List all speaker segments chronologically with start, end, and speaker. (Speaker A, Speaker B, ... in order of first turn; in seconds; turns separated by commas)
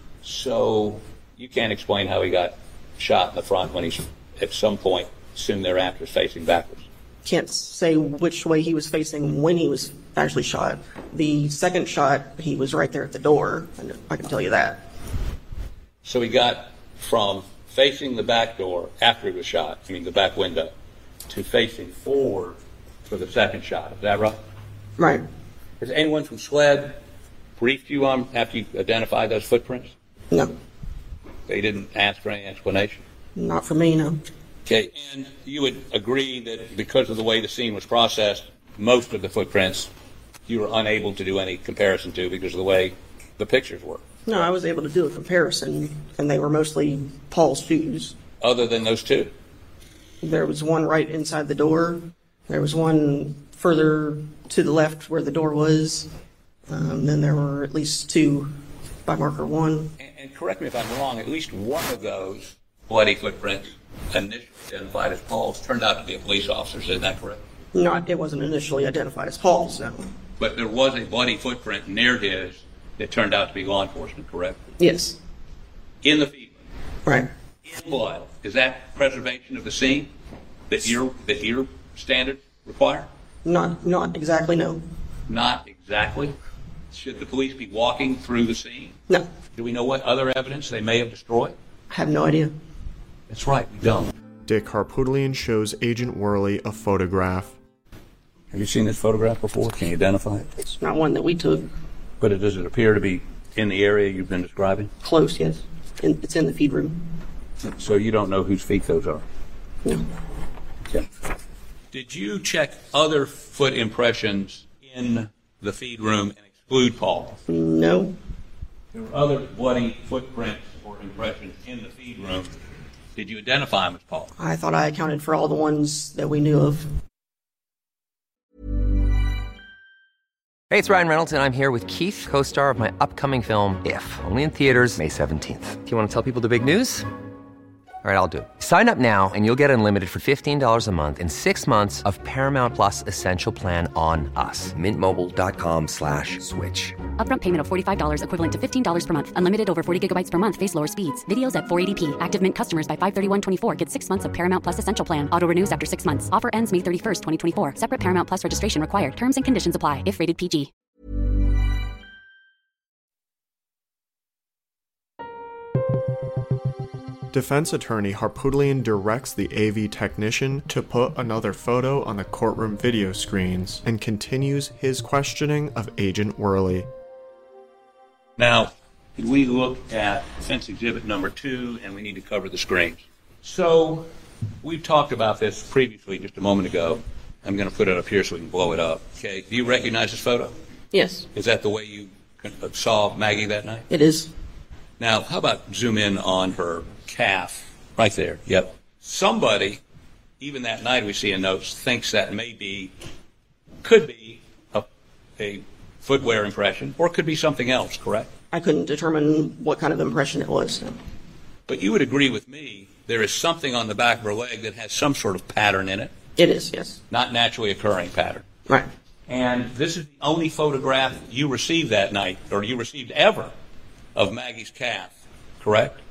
Speaker A: 0.2-6.9, Speaker B: 7.2-14.8, Speaker A: 16.0-20.7, Speaker A: 21.3-22.6, Speaker A: 23.1-24.4, Speaker B: 25.0-25.2, Speaker A: 25.8-27.0, Speaker A: 27.6-29.9, Speaker A: 31.5-33.0, Speaker B: 33.4-34.2, Speaker A: 34.7-39.9, Speaker A: 40.5-44.1, Speaker B: 44.3-48.1, Speaker A: 48.4-49.3, Speaker B: 50.2-56.1, Speaker B: 56.7-60.0, Speaker A: 60.0-67.4, Speaker B: 67.7-70.1, Speaker A: 70.4-74.6, Speaker B: 74.8-75.2, Speaker A: 76.0-76.6, Speaker A: 77.7-80.1, Speaker A: 80.7-83.1, Speaker B: 83.5-84.8, Speaker A: 85.3-86.4, Speaker A: 86.9-89.0, Speaker A: 89.5-91.6, Speaker B: 91.9-92.5, Speaker A: 93.3-94.1, Speaker C: 94.5-97.6, Speaker A: 98.5-100.5, Speaker B: 100.6-101.7, Speaker A: 102.2-104.9, Speaker B: 105.0-107.0, Speaker A: 107.7-109.2, Speaker A: 111.9-117.4, Speaker B: 117.5-118.2, Speaker A: 118.9-122.5, Speaker A: 123.2-124.3, Speaker B: 124.4-126.9, Speaker D: 130.7-137.1, Speaker D: 138.0-147.0, Speaker E: 147.2-160.7, Speaker C: 167.3-176.9, Speaker A: 178.4-184.1, Speaker A: 184.6-190.6, Speaker B: 190.9-191.3, Speaker A: 191.3-193.9, Speaker B: 193.9-194.3, Speaker A: 195.0-199.8, Speaker A: 200.4-202.9, Speaker A: 203.8-204.9, Speaker A: 205.4-208.3, Speaker B: 208.5-211.0, Speaker A: 211.7-216.1, Speaker B: 216.4-217.0, Speaker A: 217.1-218.5, Speaker A: 219.3-223.5, Speaker A: 224.2-226.0